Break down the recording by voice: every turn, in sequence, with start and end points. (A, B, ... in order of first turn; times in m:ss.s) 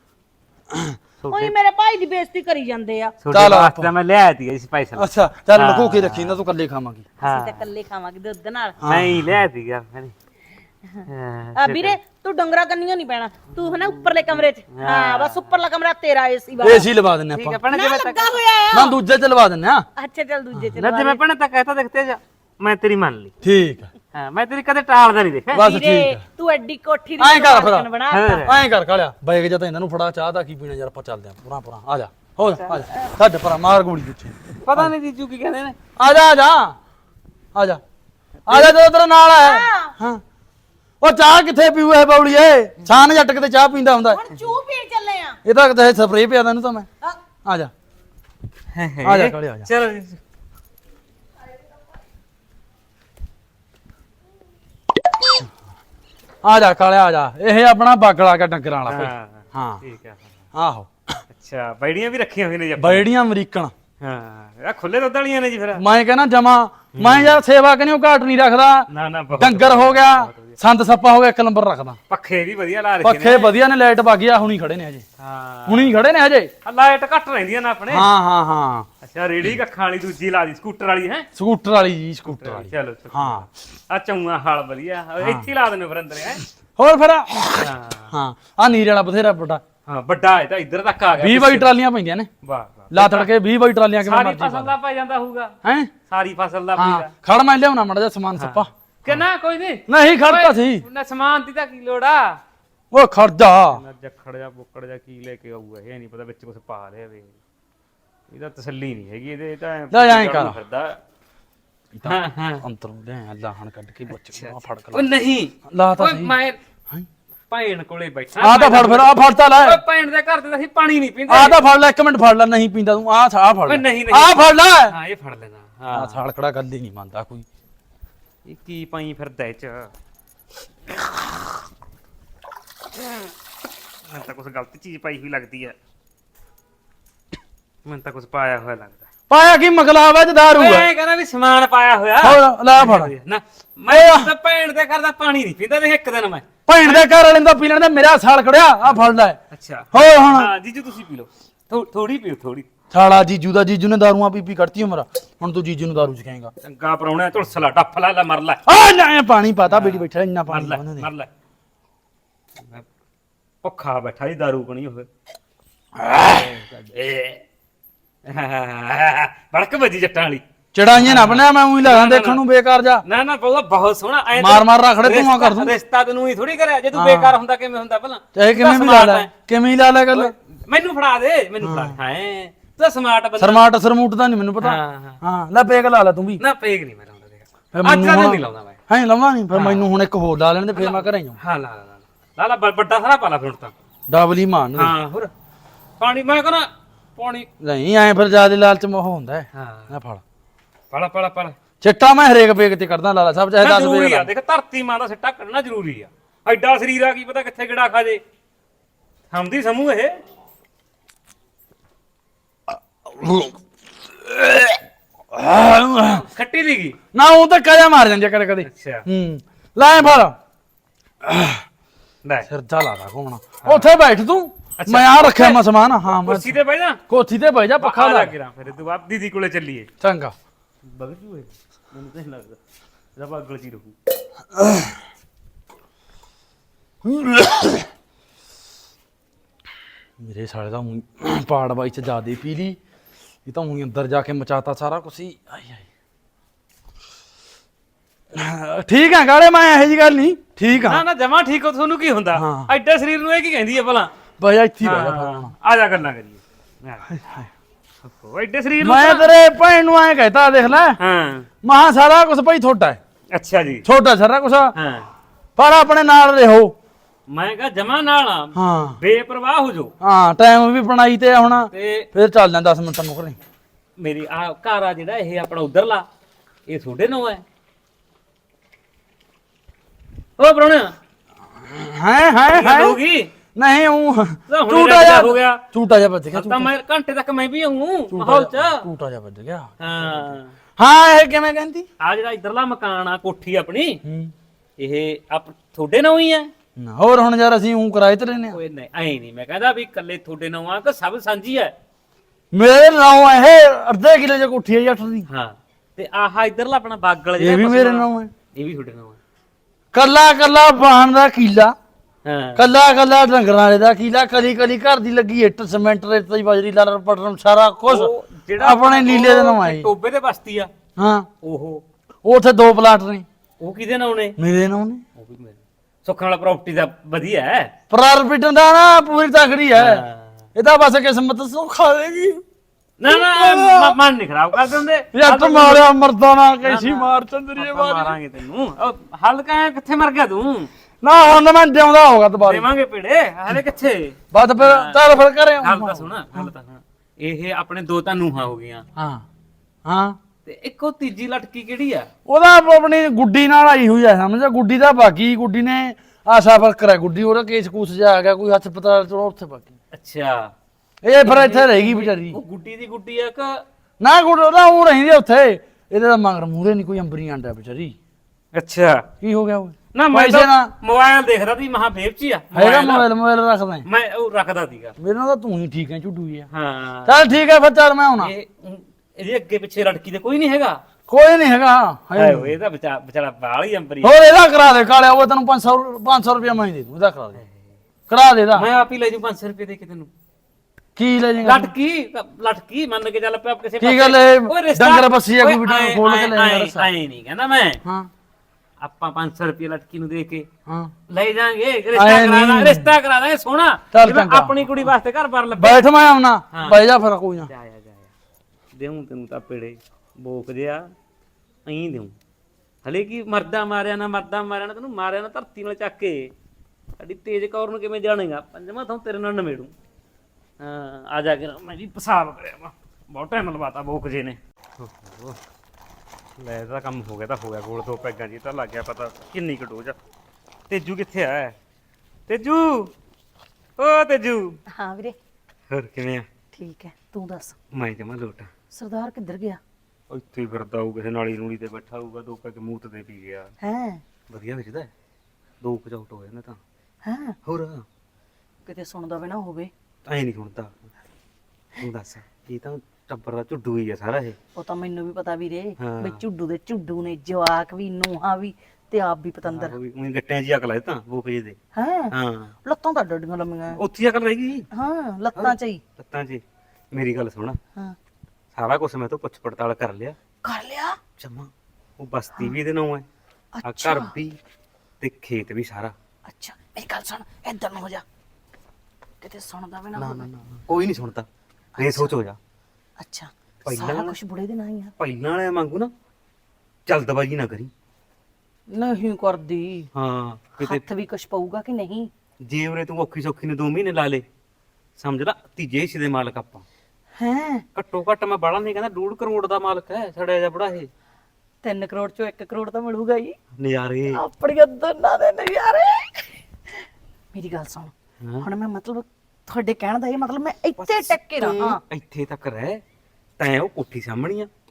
0:01.2-0:01.6 A
0:01.3-0:03.2 B
0:03.2-0:06.4 A
0:03.3-0:03.9 C
0:05.0-0:07.1 C
0:07.2-0:07.6 A
0:07.2-0:08.8 B
0:08.8-0:09.4 C
0:08.8-0:10.1 A
0:10.9-0:16.9 B
0:11.0-0:12.0 A
0:13.6-0:15.6 A
0:16.6-0:17.6 C
0:17.3-0:18.4 A
0:17.7-0:19.0 B
0:18.7-0:19.8 C
0:20.0-0:21.2 B
0:20.8-0:23.3 A
0:23.4-0:23.9 C
0:24.1-0:25.6 A
0:25.5-0:26.2 C
0:25.6-0:28.5 B
0:27.2-0:27.9 C
0:28.1-0:28.5 A
0:28.4-0:34.9 C
0:34.6-0:35.8 A
0:36.0-0:36.8 C
0:37.5-0:37.8 C
0:38.4-0:38.7 A
0:38.5-0:40.2 C
0:39.4-0:39.9 B
0:41.0-0:44.2 C
0:44.0-0:45.4 B
0:45.4-0:46.9 C
0:47.4-0:47.7 C
0:48.7-0:50.2 A
0:49.0-0:49.7 C
0:56.4-0:59.8 C
0:58.8-1:00.3 A
1:00.5-1:01.2 C
1:01.3-1:03.1 A
1:02.8-1:03.7 C
1:04.0-1:05.8 A
1:05.7-1:08.9 C
1:06.9-1:07.4 A
1:08.9-1:10.5 A
1:09.4-1:12.0 C
1:12.1-1:13.5 A
1:13.0-1:15.0 C
1:15.2-1:16.0 A
1:15.7-1:16.5 C
1:16.6-1:18.1 A
1:17.9-1:18.9 C
1:19.0-1:21.3 A
1:21.4-1:23.5 C
1:22.2-1:26.4 A
1:25.2-1:25.5 C
1:26.8-1:29.6 C
1:27.6-1:28.1 A
1:29.8-1:31.7 A
1:31.2-1:32.3 C
1:32.4-1:33.3 A
1:32.9-1:34.7 C
1:34.0-1:35.5 A
1:35.6-1:35.9 C
1:36.1-1:37.1 A
1:36.8-1:39.2 C
1:38.4-1:42.4 A
1:39.9-1:40.8 C
1:42.9-1:43.8 C
1:43.7-1:47.4 A
1:48.3-1:51.0 A
1:49.9-1:50.6 C
1:51.9-1:55.0 C
1:52.0-1:52.6 A
1:54.1-1:56.6 A
1:55.7-1:56.3 C
1:57.5-2:01.6 A
1:58.4-1:59.8 C
2:01.3-2:04.9 C
2:03.6-2:06.2 A
2:05.9-2:07.4 C
2:08.4-2:09.9 A
2:14.1-2:15.8 A
2:17.8-2:19.0 A
2:19.3-2:20.9 C
2:20.5-2:27.1 A
2:22.2-2:23.1 C
2:23.9-2:24.3 C
2:26.7-2:29.4 C
2:28.8-2:32.7 A
2:29.9-2:30.5 C
2:32.9-2:36.5 C
2:36.6-2:38.6 A
2:38.6-2:41.1 C
2:39.7-2:41.3 A
2:42.6-2:42.9 A
2:43.6-2:45.1 A
2:46.0-2:46.5 C
2:46.1-2:47.4 A
2:48.2-2:52.4 A
2:50.7-2:53.0 C
2:53.0-2:59.3 A
2:54.4-2:55.7 C
2:56.9-2:57.3 C
2:58.3-3:00.3 C
3:00.1-3:03.6 A
3:01.6-3:02.0 C
3:03.4-3:06.4 C
3:04.6-3:05.2 A
3:06.4-3:08.8 A
3:07.7-3:11.4 C
3:09.5-3:09.9 A
3:10.7-3:13.7 A
3:14.1-3:14.9 C
3:14.8-3:15.3 A
3:16.0-3:17.5 A
3:17.6-3:20.2 C
3:19.5-3:19.9 A
3:20.9-3:21.6 A
3:21.8-3:24.3 C
3:23.6-3:28.2 A
3:29.3-3:30.2 A
3:32.7-3:33.6 C
3:34.2-3:34.8 C
3:35.3-3:36.2 C
3:36.1-3:37.0 A
3:37.1-3:40.4 C
3:38.6-3:39.0 A
3:41.2-3:41.6 C
3:42.5-3:46.6 C
3:43.6-3:43.9 A
3:44.8-3:45.6 A
3:46.1-3:47.0 A
3:47.1-3:48.3 C
3:47.8-3:49.9 A
3:50.0-3:50.3 C
3:50.8-3:52.6 A
3:53.1-3:54.0 A
3:54.5-3:54.9 C
3:57.0-3:57.9 C
4:00.2-4:02.8 C
4:03.4-4:05.8 C
4:08.3-4:11.0 C
4:10.7-4:14.1 A
4:12.3-4:12.7 C
4:14.4-4:15.5 C
4:14.8-4:17.0 A
4:17.1-4:17.5 C
4:18.0-4:19.3 A
4:18.8-4:21.0 C
4:21.0-4:21.5 A
4:21.6-4:23.0 C
4:23.3-4:23.8 A
4:23.8-4:24.7 C
4:24.7-4:25.1 A
4:25.6-4:26.7 C
4:27.3-4:29.9 A
4:28.5-4:29.0 C
4:30.0-4:33.4 C
4:31.7-4:32.1 A
4:34.0-4:36.1 A
4:36.7-4:37.4 A
4:40.4-4:41.0 A
4:41.7-4:43.0 C
4:42.5-4:43.3 A
4:43.5-4:46.7 C
4:44.5-4:45.6 A
4:46.3-4:48.8 A
4:48.1-4:51.8 C
4:49.8-4:50.5 A
4:52.0-4:54.0 A
4:54.0-4:54.3 C
4:54.8-4:56.5 A
4:56.8-4:58.6 C
4:58.5-5:01.7 A
5:02.5-5:05.3 C
5:05.3-5:09.2 A
5:07.4-5:08.3 C
5:09.9-5:11.7 C
5:12.2-5:12.6 A
5:12.6-5:19.9 C
5:17.8-5:20.7 A
5:21.0-5:21.3 C
5:21.4-5:21.8 A
5:22.2-5:23.2 C
5:23.6-5:24.4 A
5:24.4-5:25.0 C
5:25.2-5:27.7 A
5:27.9-5:30.0 C
5:29.7-5:30.4 A
5:30.5-5:32.4 C
5:33.0-5:35.9 A
5:33.0-5:34.0 C
5:35.1-5:38.2 C
5:36.6-5:40.7 A
5:41.0-5:42.7 C
5:42.4-5:45.1 A
5:44.3-5:46.5 C
5:45.6-5:48.8 A
5:49.0-5:49.2 C
5:49.8-5:50.2 C
5:50.4-5:52.1 A
5:52.2-5:59.7 C
5:59.9-6:00.5 A
6:01.0-6:02.4 C
6:01.2-6:03.6 A
6:04.0-6:07.9 C
6:08.5-6:09.1 A
6:09.2-6:10.7 C
6:09.9-6:13.1 A
6:12.5-6:13.8 C
6:13.8-6:14.9 A
6:15.0-6:16.4 C
6:16.5-6:17.3 A
6:17.0-6:18.3 C
6:18.2-6:20.8 A
6:21.1-6:22.5 C
6:22.2-6:24.1 A
6:24.0-6:27.4 C
6:27.4-6:27.8 A
6:28.1-6:28.7 C
6:28.5-6:30.1 A
6:31.0-6:31.7 C
6:31.4-6:37.8 A
6:33.8-6:36.9 C
6:38.8-6:40.5 A
6:41.1-6:45.8 A
6:41.9-6:42.9 C
6:43.9-6:44.8 C
6:45.6-6:47.5 C
6:46.5-6:46.8 A
6:47.5-6:48.1 A
6:48.7-6:50.9 A
6:51.6-6:52.1 A
6:52.8-6:56.3 A
6:57.0-6:59.7 A
7:00.6-7:05.4 A
7:06.4-7:10.0 A
7:10.7-7:11.6 A
7:12.3-7:12.9 A
7:13.8-7:14.6 A
7:14.7-7:15.2 B
7:15.7-7:16.3 A
7:16.5-7:17.6 B
7:17.7-7:18.5 A
7:18.7-7:19.6 B
7:20.1-7:23.5 A
7:23.6-7:24.0 B
7:24.3-7:24.9 A
7:25.6-7:26.6 A
7:27.0-7:27.3 B
7:27.4-7:27.8 A
7:28.6-7:29.7 B
7:30.0-7:30.9 A
7:31.8-7:34.4 A
7:34.6-7:39.7 B
7:35.8-7:36.2 A
7:39.5-7:41.6 A
7:41.7-7:42.1 B
7:42.1-7:42.5 A
7:42.6-7:43.8 B
7:43.8-7:44.7 A
7:44.7-7:45.8 B
7:45.3-7:47.6 A
7:48.5-7:50.2 A
7:50.4-7:51.0 B
7:51.2-7:53.0 A
7:53.5-7:54.1 B
7:53.6-7:54.4 A
7:55.0-7:55.9 A
7:56.3-7:58.0 B
7:59.2-8:00.3 B
7:59.9-8:01.3 A
8:01.8-8:02.1 B
8:01.8-8:02.4 A
8:03.0-8:04.9 B
8:03.6-8:04.2 A
8:05.0-8:05.9 A
8:06.9-8:07.7 A
8:08.7-8:09.9 B
8:09.9-8:10.8 A
8:10.6-8:12.1 B
8:12.4-8:14.2 A
8:15.0-8:16.6 A
8:17.2-8:17.6 B
8:17.7-8:20.9 A
8:21.6-8:23.4 B
8:23.6-8:24.2 A
8:24.1-8:26.3 B
8:27.3-8:31.8 B
8:28.2-8:28.5 A
8:30.8-8:32.8 A
8:33.4-8:34.5 A